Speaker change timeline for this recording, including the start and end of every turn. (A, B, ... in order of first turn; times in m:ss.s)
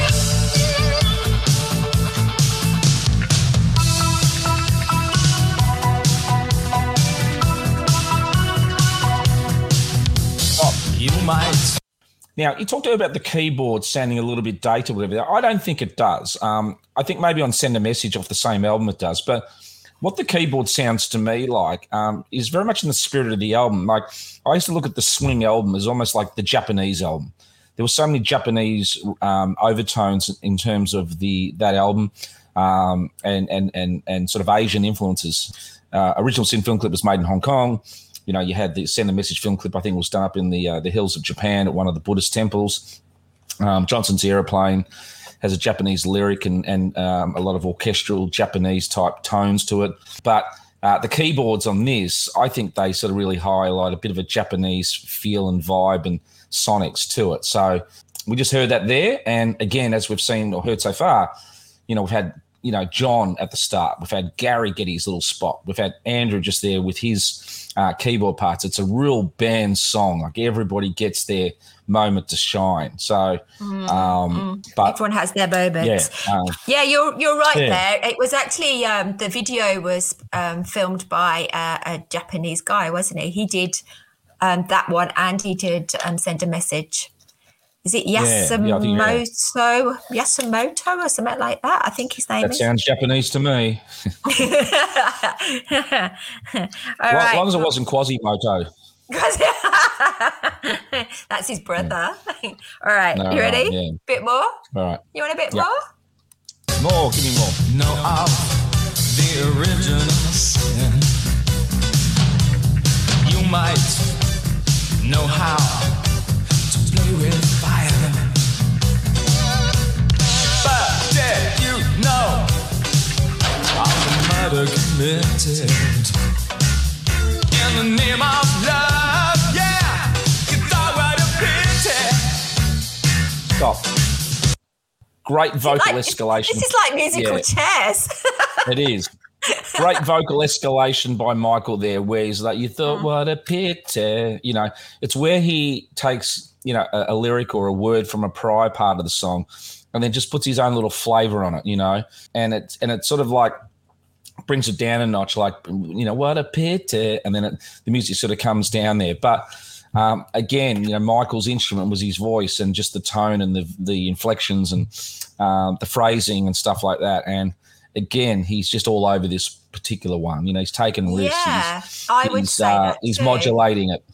0:10.9-0:11.8 A
0:12.4-0:19.5 B
0:20.0-0:43.0 B
0:43.6-0:44.9 B
0:45.4-1:01.3 B
1:01.9-1:15.0 B
1:13.6-1:23.8 C
1:15.8-1:16.6 B
1:17.5-1:17.8 B
1:24.4-1:27.1 C
1:27.8-1:32.7 C
1:28.2-1:29.2 B
1:32.4-1:33.8 B
1:34.3-1:37.7 C
1:37.1-1:38.7 B
1:39.1-1:44.6 C
1:43.1-1:44.0 B
1:44.7-1:45.7 B
1:45.1-1:45.8 C
1:46.8-1:47.6 B
1:47.7-1:51.1 A
1:53.2-1:54.1 A
1:55.0-1:56.0 A
1:56.7-1:58.4 A
2:00.6-2:02.5 A
2:03.7-2:06.1 A
2:07.5-2:12.4 A
2:13.6-2:13.9 B
2:15.2-2:17.5 B
2:15.6-2:18.7 C
2:18.6-2:19.1 B
2:19.5-2:20.0 C
2:19.8-2:33.6 B
2:34.4-2:54.0 B
2:51.1-2:53.6 C